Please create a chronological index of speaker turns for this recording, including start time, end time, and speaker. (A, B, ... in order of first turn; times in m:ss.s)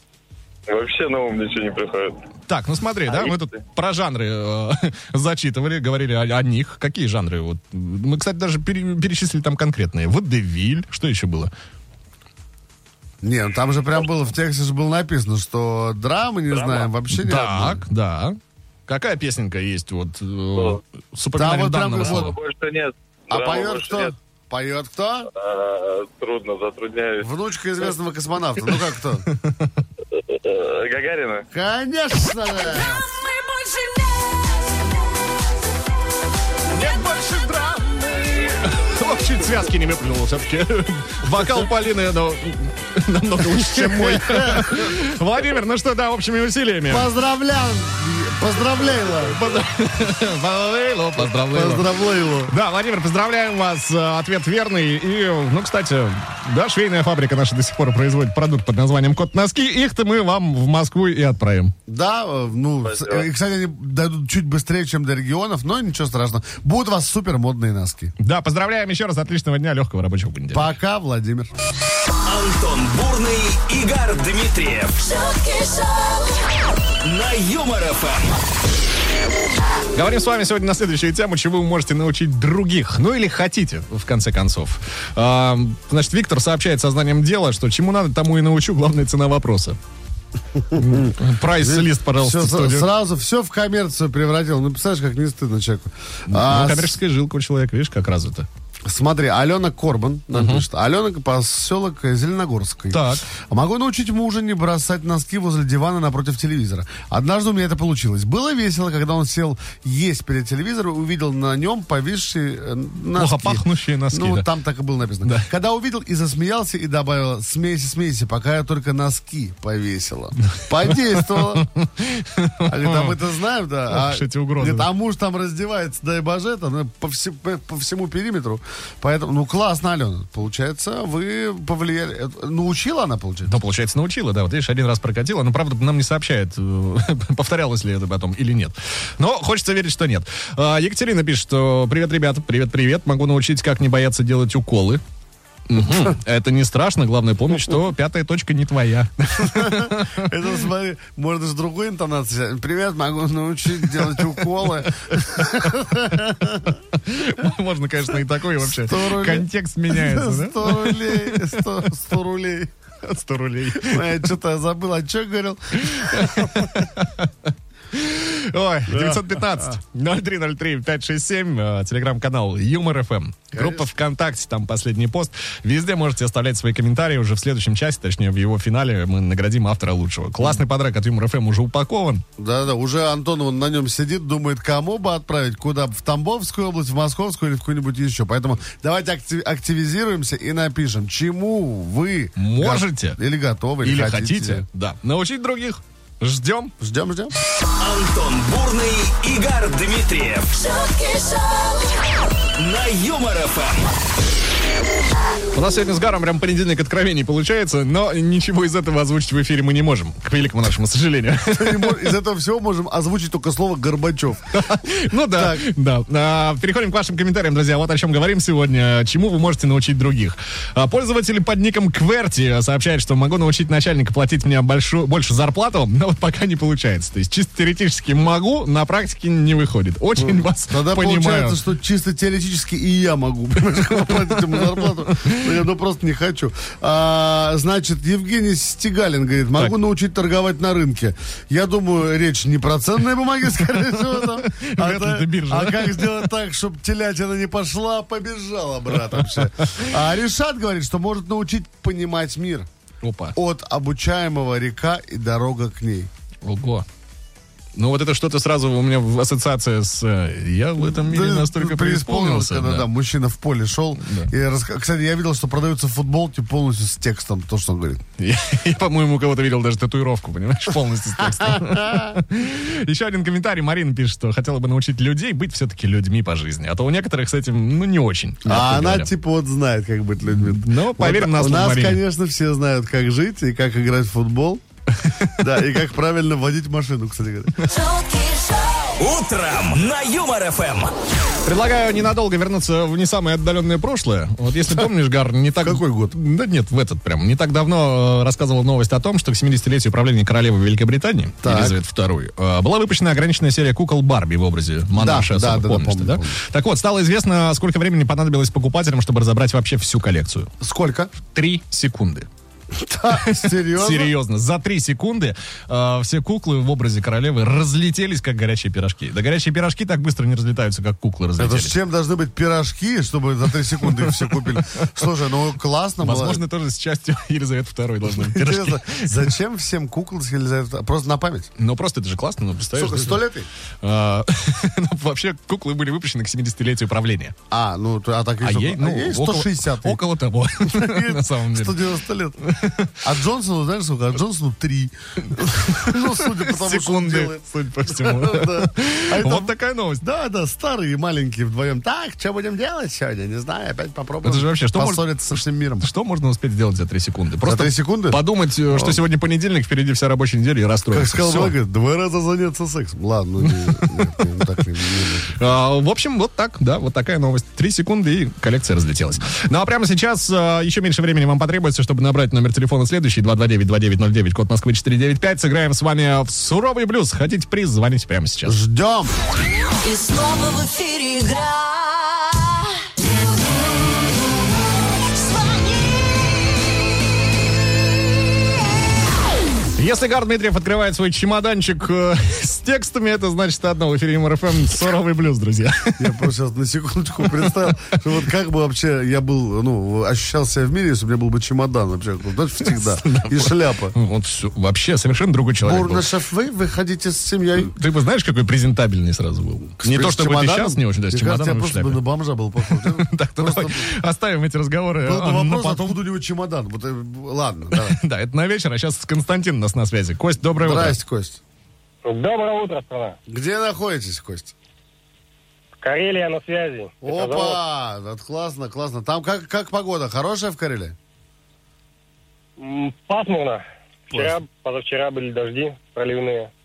0:00.7-0:02.2 A
0:02.5-0:11.5 B
0:03.1-0:03.4 A
0:13.2-0:17.8 C
0:16.5-0:16.9 A
0:17.1-0:22.3 B
0:20.5-0:20.8 A
0:21.4-0:22.3 C
0:22.0-0:24.1 A
0:23.3-0:25.3 C
0:25.3-0:27.3 A
0:27.2-0:29.2 C
0:29.3-0:29.7 B
0:30.1-0:31.5 A
0:31.5-0:33.0 C
0:36.7-0:47.1 B
0:43.5-0:45.0 C
0:46.9-0:49.4 C
0:49.3-0:51.9 B
0:51.2-0:52.5 C
0:52.5-1:01.7 B
1:01.9-1:08.1 C
1:02.8-1:03.3 A
1:08.2-1:10.7 B
1:10.5-1:11.5 C
1:12.2-1:15.2 D
1:15.1-1:16.4 E
1:17.0-1:18.4 D
1:19.9-1:29.8 B
1:30.6-1:37.0 C
1:30.7-1:32.9 B
1:36.3-1:38.5 B
1:38.8-2:01.7 C
1:40.3-1:40.6 B
1:42.9-1:43.3 B
1:53.1-1:54.5 B
1:55.2-1:55.5 B
2:00.6-2:03.2 B
2:02.6-2:13.5 C
2:03.9-2:04.9 B
2:13.5-2:25.0 B
2:25.7-2:30.3 B
2:29.4-2:36.8 C
2:33.8-2:34.5 B
2:35.4-2:35.7 B
2:36.9-2:41.6 B
2:38.6-2:42.7 C
2:43.0-2:44.2 B
2:43.8-2:46.8 C
2:45.8-3:02.2 B
2:48.9-2:49.7 C
2:53.5-2:53.9 C
3:02.4-3:14.6 C
3:12.4-3:13.2 B
3:13.8-3:16.7 B
3:16.8-3:17.3 C
3:17.8-3:20.6 D
3:20.6-3:21.9 E
3:22.5-3:24.0 D
3:25.5-3:32.1 B
3:31.5-3:34.7 C
3:34.5-3:51.6 B
3:35.3-3:35.7 C
3:50.2-4:12.7 C
3:54.5-3:55.4 B
4:04.0-4:06.2 B
4:09.1-4:09.9 B
4:13.0-4:13.4 B
4:13.3-4:16.1 C
4:16.4-4:16.8 B
4:17.8-4:22.9 B
4:20.8-4:28.0 C
4:24.0-4:24.3 B
4:28.2-4:39.1 B
4:31.2-4:32.2 C
4:38.4-4:44.6 C
4:40.2-4:42.0 B
4:45.0-4:45.4 B
4:45.4-4:47.6 C
4:47.6-4:48.9 E
4:49.0-4:50.9 D
4:51.4-5:10.5 B
4:55.6-4:56.2 C
5:01.4-5:01.8 C
5:04.9-5:06.4 C
5:10.6-5:11.1 C
5:11.2-5:12.3 B
5:12.7-5:14.1 C
5:13.1-5:21.7 B
5:21.4-5:26.4 C
5:24.2-5:24.5 B
5:26.0-5:29.2 B
5:28.1-5:31.5 C
5:31.6-5:33.2 B
5:32.7-5:33.5 C
5:33.8-5:37.3 B
5:37.5-5:40.0 C
5:38.4-5:41.8 B
5:40.6-5:42.4 C
5:42.4-5:43.0 B
5:43.0-5:55.9 C
5:45.3-5:50.0 B
5:54.2-6:01.5 B
5:57.4-5:59.0 C
6:00.9-6:05.4 C
6:03.5-6:04.1 B
6:05.4-6:18.6 B
6:18.4-6:19.1 C
6:19.8-6:22.7 E
6:25.2-6:25.8 E
6:29.8-6:36.1 B
6:36.0-6:43.9 C
6:37.2-6:37.5 B
6:42.6-6:46.1 B
6:45.6-6:47.7 C
6:47.6-6:52.0 B
6:49.8-6:53.9 C
6:52.6-6:56.0 B
6:55.0-6:58.0 C
6:57.7-7:01.0 B
7:00.6-7:01.4 C
7:02.0-7:03.2 F
7:03.3-7:04.5 C
7:05.8-7:07.6 F
7:07.0-7:11.0 C
7:12.6-7:16.5 F
7:14.1-7:14.4 B